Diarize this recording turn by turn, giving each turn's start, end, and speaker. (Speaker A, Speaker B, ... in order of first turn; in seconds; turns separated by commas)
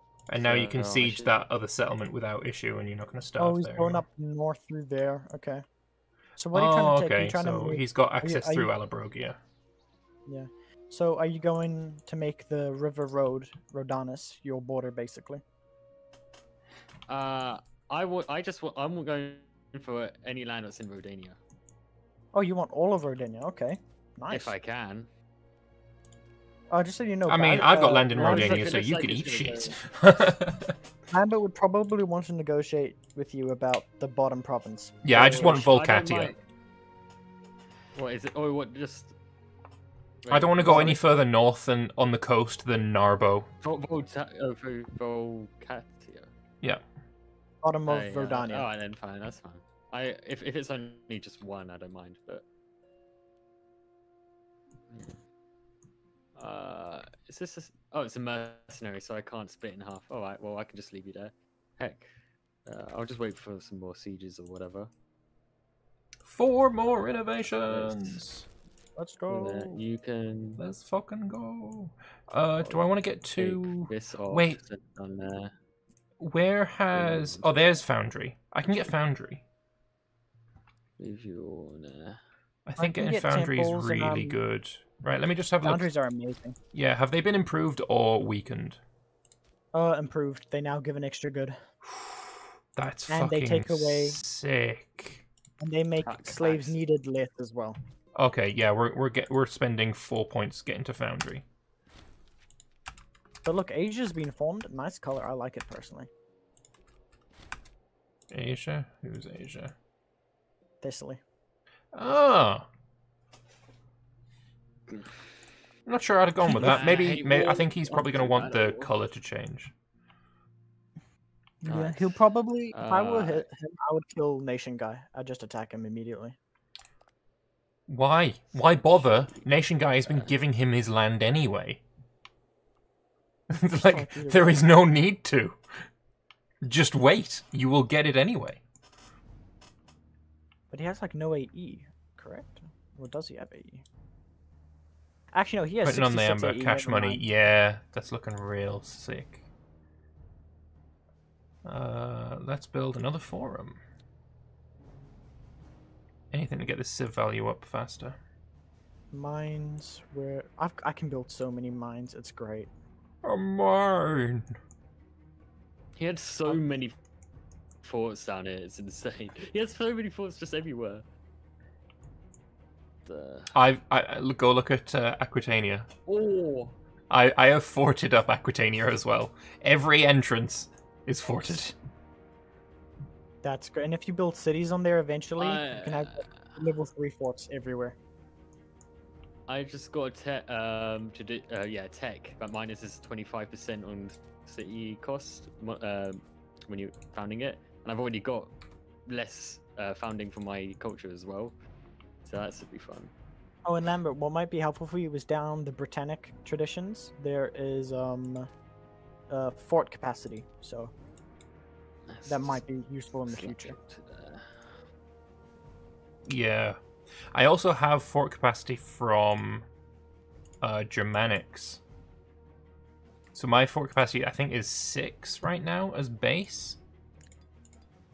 Speaker A: 0.3-4.0, Speaker B: 0.4-1.3, Speaker C: 3.4-5.6, Speaker C: 6.4-8.7, Speaker A: 6.5-9.4, Speaker C: 10.2-15.4, Speaker B: 17.1-21.4, Speaker C: 22.3-24.5, Speaker B: 24.3-25.1, Speaker C: 26.7-28.6, Speaker A: 27.3-30.8, Speaker B: 28.1-29.8, Speaker C: 31.1-35.6, Speaker A: 35.0-36.3, Speaker B: 35.1-36.4, Speaker B: 37.9-39.1, Speaker B: 40.2-41.0, Speaker A: 40.3-43.5, Speaker C: 40.6-41.0, Speaker B: 43.6-46.3, Speaker C: 47.6-48.7, Speaker B: 47.9-52.5, Speaker B: 54.9-55.2, Speaker B: 56.4-62.1, Speaker B: 62.6-64.9, Speaker A: 66.2-68.5, Speaker B: 67.7-68.2, Speaker C: 69.0-69.8, Speaker B: 69.3-70.6, Speaker A: 70.6-74.6, Speaker B: 73.3-75.5, Speaker A: 76.2-79.4, Speaker B: 76.9-77.6, Speaker B: 78.7-78.9, Speaker B: 81.0-82.2, Speaker A: 82.7-85.9, Speaker C: 82.8-84.4, Speaker C: 85.6-86.5, Speaker A: 86.7-88.8, Speaker C: 89.7-91.6, Speaker A: 92.7-95.2, Speaker C: 93.1-94.2, Speaker C: 95.6-97.8, Speaker B: 96.0-96.8, Speaker A: 98.2-101.4, Speaker C: 103.4-106.1, Speaker A: 108.3-109.7, Speaker C: 110.8-111.2, Speaker A: 111.9-112.7, Speaker B: 114.9-115.4, Speaker A: 115.9-119.7, Speaker C: 116.5-116.8, Speaker B: 116.5-118.9, Speaker C: 121.6-126.3, Speaker B: 121.6-122.2, Speaker B: 122.7-123.5, Speaker A: 127.9-131.8, Speaker B: 128.5-130.3, Speaker A: 133.5-135.6, Speaker C: 133.9-134.6, Speaker A: 136.6-138.6, Speaker C: 140.7-143.8, Speaker C: 145.3-147.2, Speaker A: 145.8-149.4, Speaker A: 151.6-153.8, Speaker A: 156.3-158.2, Speaker C: 159.1-162.7, Speaker A: 163.2-164.5, Speaker B: 166.0-166.9, Speaker B: 167.8-171.0, Speaker B: 173.1-173.5, Speaker A: 173.5-175.9, Speaker B: 176.1-176.8, Speaker A: 177.1-181.7, Speaker C: 183.4-187.9, Speaker B: 185.4-186.6, Speaker B: 189.5-198.5, Speaker B: 199.1-201.5, Speaker B: 202.2-203.1, Speaker C: 203.6-208.5, Speaker C: 209.3-210.9, Speaker B: 212.1-212.6, Speaker C: 212.3-213.7, Speaker B: 213.2-214.8, Speaker A: 216.2-216.8, Speaker A: 217.3-219.7, Speaker A: 220.6-221.8, Speaker A: 223.3-226.8